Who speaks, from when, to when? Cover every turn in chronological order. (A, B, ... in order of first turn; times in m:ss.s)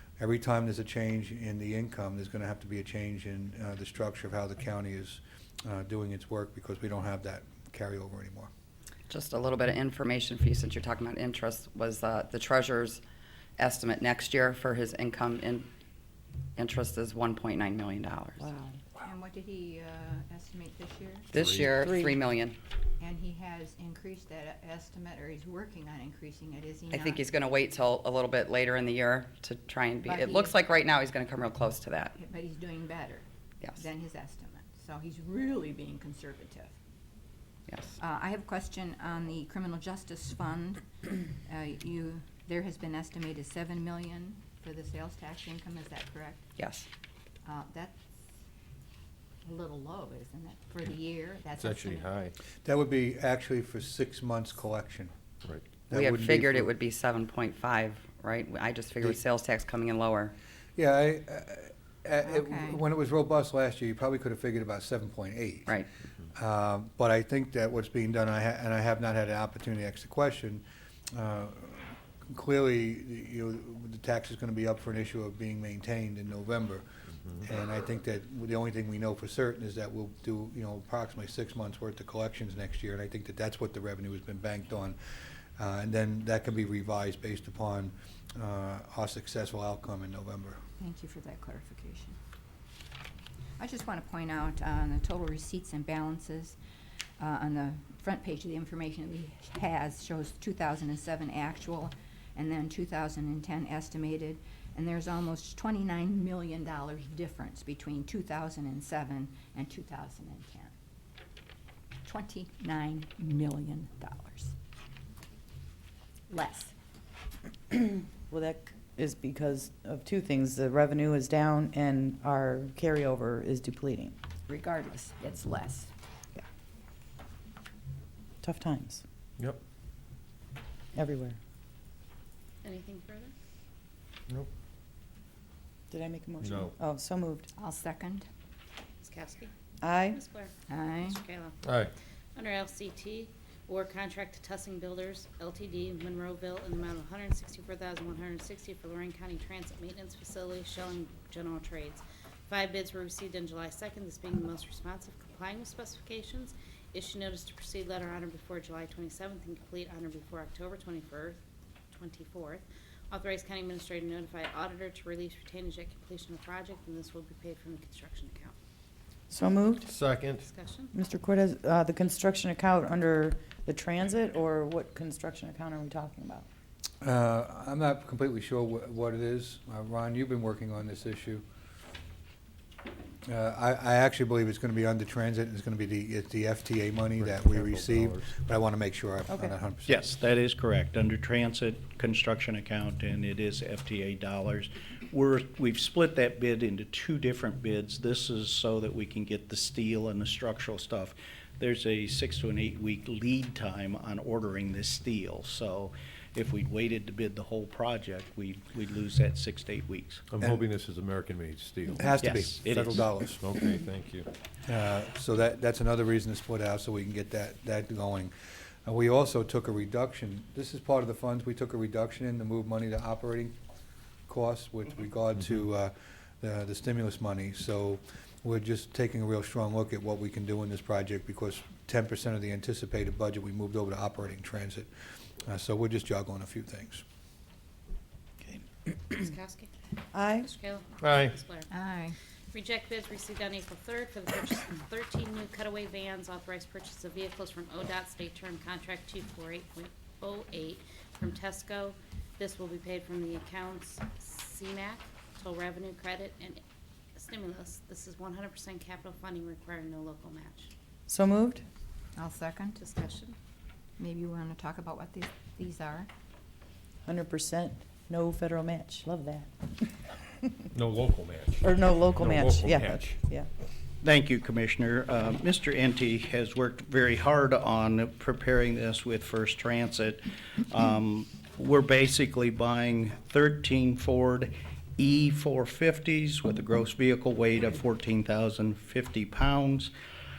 0:00.2-0:08.5 A
0:09.1-0:13.0 B
0:13.6-0:15.7 B
0:16.6-0:18.4 B
0:18.4-0:18.8 C
0:19.0-0:21.3 D
0:21.3-0:22.6 B
0:21.4-0:21.6 E
0:21.8-0:22.1 C
0:23.0-0:27.2 D
0:26.9-0:32.1 B
0:30.0-0:30.6 D
0:32.2-0:33.2 D
0:33.8-0:36.7 D
0:37.7-0:37.9 B
0:38.0-0:40.8 D
0:41.4-0:46.4 D
0:46.6-0:46.8 B
0:47.4-0:48.0 D
0:49.4-0:52.1 D
0:51.6-0:52.3 E
0:52.6-0:55.1 A
0:55.4-0:55.8 E
0:55.9-0:56.7 A
0:55.9-1:00.3 B
1:00.8-1:05.7 A
1:02.2-1:02.8 D
1:06.4-1:10.6 A
1:11.1-1:16.9 A
1:17.4-1:25.0 A
1:25.6-1:30.6 A
1:30.8-1:32.2 D
1:33.6-1:36.6 D
1:37.2-1:50.7 D
1:52.0-1:54.5 D
1:56.3-1:56.7 D
1:57.7-2:04.2 C
2:04.5-2:05.9 D
2:08.4-2:09.0 C
2:10.9-2:11.4 C
2:12.6-2:13.3 F
2:15.9-2:17.5 C
2:16.4-2:16.7 E
2:17.5-2:18.3 D
2:19.0-2:19.5 F
2:19.8-2:20.2 C
2:20.1-2:20.5 F
2:20.7-2:21.2 D
2:21.0-2:21.6 F
2:21.6-2:21.9 E
2:22.4-2:48.5 F
2:49.3-2:49.9 C
2:49.9-2:50.4 E
2:50.4-2:50.9 F
2:50.9-2:56.5 C
2:57.0-3:01.4 A
3:03.2-3:10.0 A
3:07.2-3:08.4 E
3:09.3-3:09.5 C
3:09.9-3:30.3 G
3:30.3-3:34.3 E
3:32.0-3:33.4 A
3:32.2-3:33.0 G
3:34.6-3:38.3 A
3:38.8-3:43.5 A
3:44.3-3:54.9 A
3:55.4-3:57.0 A
3:59.1-3:59.7 F
4:00.1-4:00.5 C
4:00.4-4:01.7 F
4:01.0-4:01.3 E
4:01.7-4:02.2 D
4:02.5-4:16.6 F
4:17.2-4:20.7 F
4:21.1-4:21.6 C
4:22.1-4:22.8 D
4:22.8-4:23.4 F
4:24.0-4:26.1 D
4:27.0-4:29.9 C
4:30.7-4:33.2 E
4:31.6-4:33.5 C
4:34.0-4:49.9 G